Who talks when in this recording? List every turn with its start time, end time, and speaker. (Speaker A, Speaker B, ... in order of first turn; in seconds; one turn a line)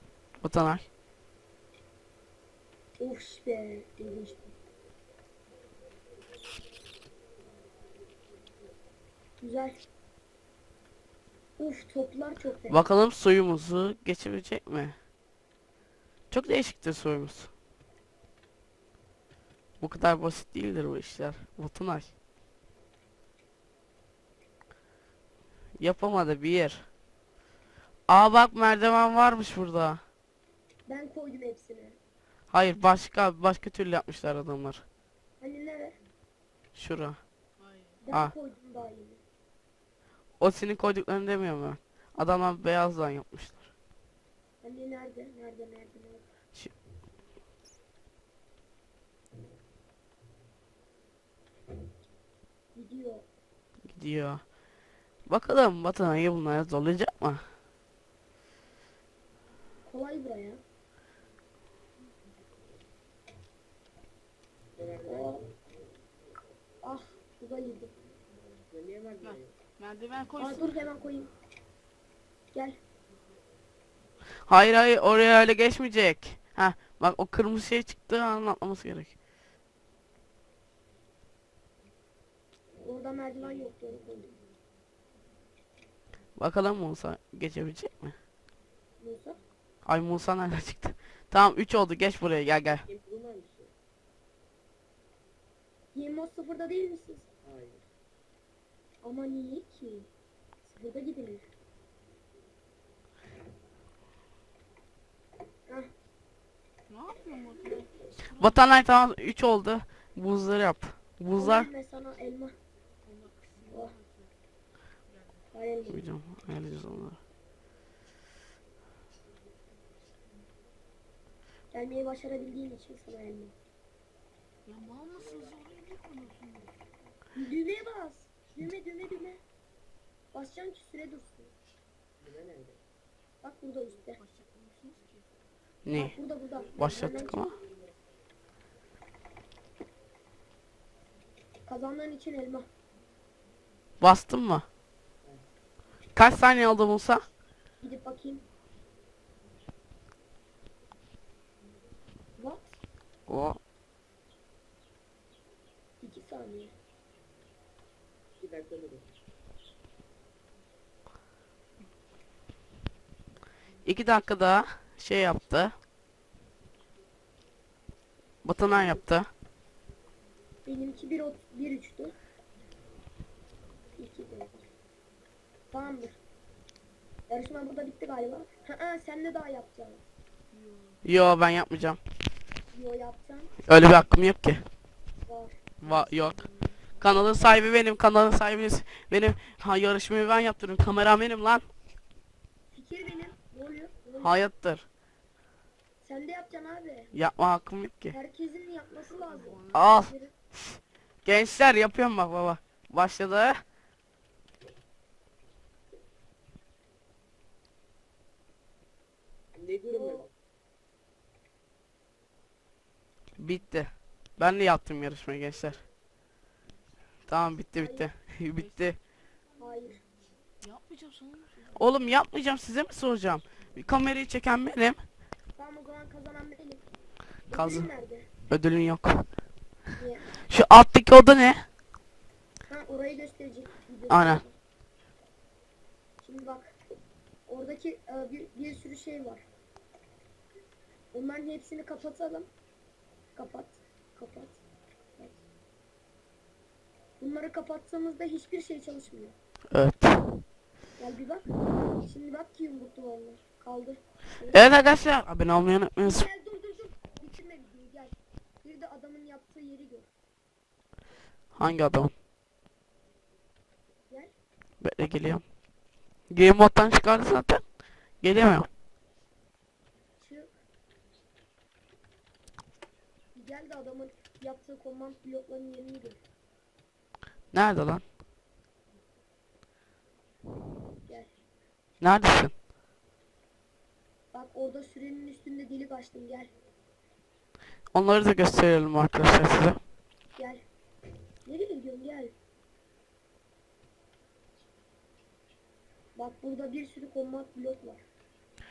Speaker A: 0.4-0.9
Speaker B: 3.0-4.5
Speaker B: 9.4-9.8
Speaker B: 11.6-12.8
Speaker A: 12.7-14.9
Speaker A: 16.3-17.5
Speaker A: 19.8-22.1
Speaker A: 25.8-26.8
Speaker A: 28.1-30.0
Speaker B: 30.9-32.0
Speaker A: 32.5-34.8
Speaker B: 35.4-36.0
Speaker A: 36.7-37.2
Speaker C: 37.6-38.0
Speaker B: 38.0-39.2
Speaker A: 40.4-43.7
Speaker B: 44.6-46.2
Speaker B: 52.7-53.3
Speaker A: 53.9-54.4
Speaker A: 55.3-57.4
Speaker B: 59.9-60.6
Speaker D: 64.8-65.3
Speaker B: 65.0-65.5
Speaker B: 66.8-67.9
Speaker D: 68.7-69.5
Speaker C: 69.2-70.7
Speaker B: 70.4-71.3
Speaker A: 74.5-79.1
Speaker B: 82.8-84.4
Speaker A: 86.4-88.2
Speaker B: 89.0-89.4
Speaker A: 89.8-92.8
Speaker D: 92.9-93.7
Speaker B: 95.9-97.3
Speaker D: 97.4-97.8
Speaker B: 99.0-100.1
Speaker B: 100.7-101.5
Speaker C: 106.9-108.5
Speaker A: 108.4-111.7
Speaker B: 111.3-112.5
Speaker C: 113.0-114.3
Speaker B: 113.7-113.9
Speaker B: 115.5-116.0
Speaker A: 115.9-117.2
Speaker B: 121.7-123.5
Speaker C: 124.7-126.7
Speaker D: 125.2-125.5
Speaker B: 127.3-129.4
Speaker B: 130.3-131.5
Speaker D: 132.2-132.8
Speaker B: 133.4-134.2
Speaker C: 134.2-135.2
Speaker A: 135.8-136.2
Speaker B: 135.9-137.5
Speaker A: 136.7-137.5
Speaker B: 141.6-142.7
Speaker A: 144.0-144.6
Speaker A: 146.1-147.2
Speaker B: 147.8-148.4
Speaker B: 152.4-152.7
Speaker A: 153.3-153.6
Speaker B: 156.0-156.7
Speaker D: 158.4-159.1
Speaker A: 163.8-165.7
Speaker A: 168.4-169.3
Speaker B: 170.6-172.1
Speaker B: 173.9-174.6
Speaker B: 175.7-176.2
Speaker B: 177.3-180.0
Speaker C: 180.5-181.0
Speaker A: 181.0-182.0
Speaker B: 182.7-183.5
Speaker A: 183.7-184.6
Speaker B: 185.2-185.6
Speaker A: 185.8-186.4
Speaker C: 185.8-187.0
Speaker A: 187.0-191.6
Speaker B: 192.7-194.4
Speaker A: 194.2-194.8
Speaker B: 196.0-197.1
Speaker A: 197.1-198.2
Speaker B: 198.1-200.3
Speaker C: 199.3-199.7
Speaker A: 199.7-203.6
Speaker D: 209.5-210.3
Speaker B: 209.9-210.3
Speaker A: 213.4-215.8
Speaker A: 217.3-219.0
Speaker B: 217.8-218.1
Speaker C: 218.6-219.0
Speaker B: 219.6-220.0
Speaker C: 220.6-221.8
Speaker A: 221.7-225.0
Speaker B: 225.5-226.8
Speaker A: 227.5-227.9
Speaker B: 227.5-228.3
Speaker A: 228.5-229.2
Speaker B: 229.9-230.3
Speaker A: 230.3-231.6
Speaker B: 232.7-234.5
Speaker A: 234.1-234.4
Speaker B: 236.2-236.8
Speaker B: 237.5-239.5
Speaker B: 241.1-242.5
Speaker B: 243.3-244.6
Speaker B: 247.2-249.3
Speaker A: 249.7-250.3
Speaker B: 251.0-254.7
Speaker A: 254.5-256.3
Speaker B: 256.0-260.1
Speaker A: 261.6-262.1
Speaker B: 264.1-264.3
Speaker A: 264.8-265.4
Speaker A: 266.3-267.6
Speaker A: 268.2-268.7
Speaker B: 270.2-270.5
Speaker B: 273.3-276.2
Speaker A: 277.5-278.0
Speaker B: 281.0-281.3
Speaker A: 282.0-282.5
Speaker B: 284.3-286.5
Speaker A: 287.9-289.8
Speaker B: 290.4-290.6
Speaker B: 291.4-292.3
Speaker B: 296.1-298.0